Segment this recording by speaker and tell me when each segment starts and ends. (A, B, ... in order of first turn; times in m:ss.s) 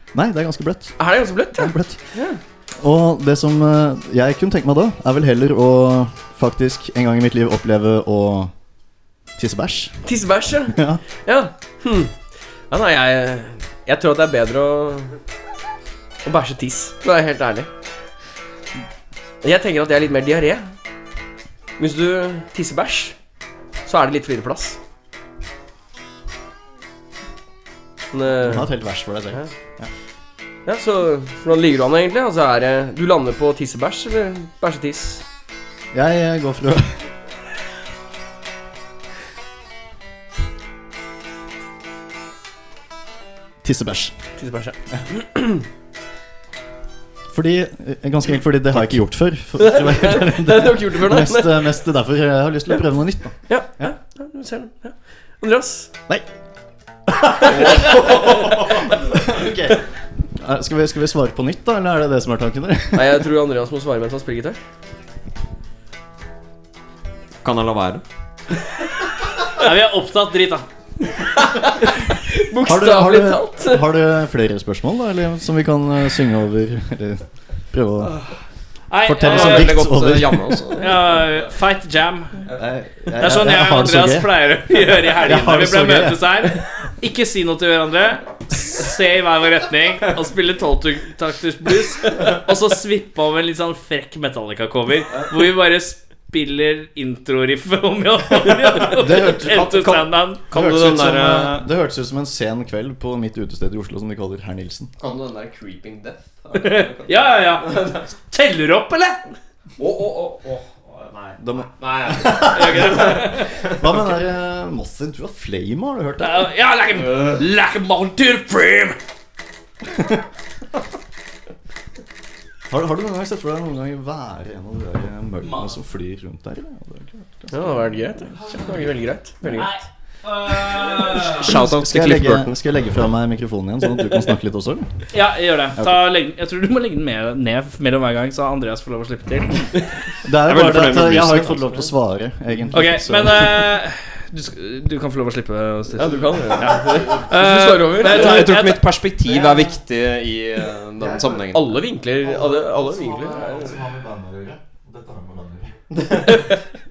0:00.1-0:02.0 A
0:01.0-0:02.4 B
0:02.8-0:08.5 A
0:09.4-0:10.0 A
0:10.0-0:12.2 B
0:10.7-0:11.0 A
0:12.7-0:15.2 B
0:16.2-0:17.7 B
0:19.4-0:20.7 B
0:21.8-0:23.2 B
0:23.8-0:24.8 B
0:28.1-0:28.7 B
0:28.4-0:29.9 A
0:30.7-0:35.2 B
0:35.9-0:37.1 A
0:43.6-0:44.1 A
0:44.4-0:45.6 B
0:47.3-0:53.9 A
0:49.6-0:51.9 B
0:53.5-0:55.9 B
0:57.1-1:03.2 A
0:57.6-0:58.2 C
1:02.9-1:04.6 B
1:07.4-1:08.0 C
1:09.6-1:10.6 D
1:11.4-1:13.9 B
1:12.6-1:18.1 A
1:18.9-1:19.8 D
1:19.1-1:20.8 A
1:19.2-1:21.5 C
1:20.8-1:22.4 D
1:22.5-1:24.4 A
1:23.2-1:40.4 D
1:25.2-1:26.5 A
1:38.8-1:44.9 A
1:40.5-1:41.7 C
1:45.0-1:48.1 C
1:46.6-1:49.2 D
1:49.8-1:53.8 C
1:51.4-1:56.4 A
1:52.5-1:53.5 D
1:56.2-1:59.0 D
1:57.1-1:57.4 C
2:02.7-2:07.9 A
2:05.4-2:05.7 D
2:07.5-2:09.8 B
2:09.5-2:11.5 D
2:11.0-2:12.6 C
2:11.4-2:15.0 A
2:15.1-2:19.7 D
2:15.8-2:16.0 A
2:20.2-2:23.7 A
2:20.4-2:21.8 C
2:22.7-2:28.9 D
2:26.0-2:28.5 B
2:28.0-2:31.7 C
2:29.3-2:29.7 A
2:31.0-2:31.6 A
2:31.5-2:33.8 B
2:32.2-2:35.9 A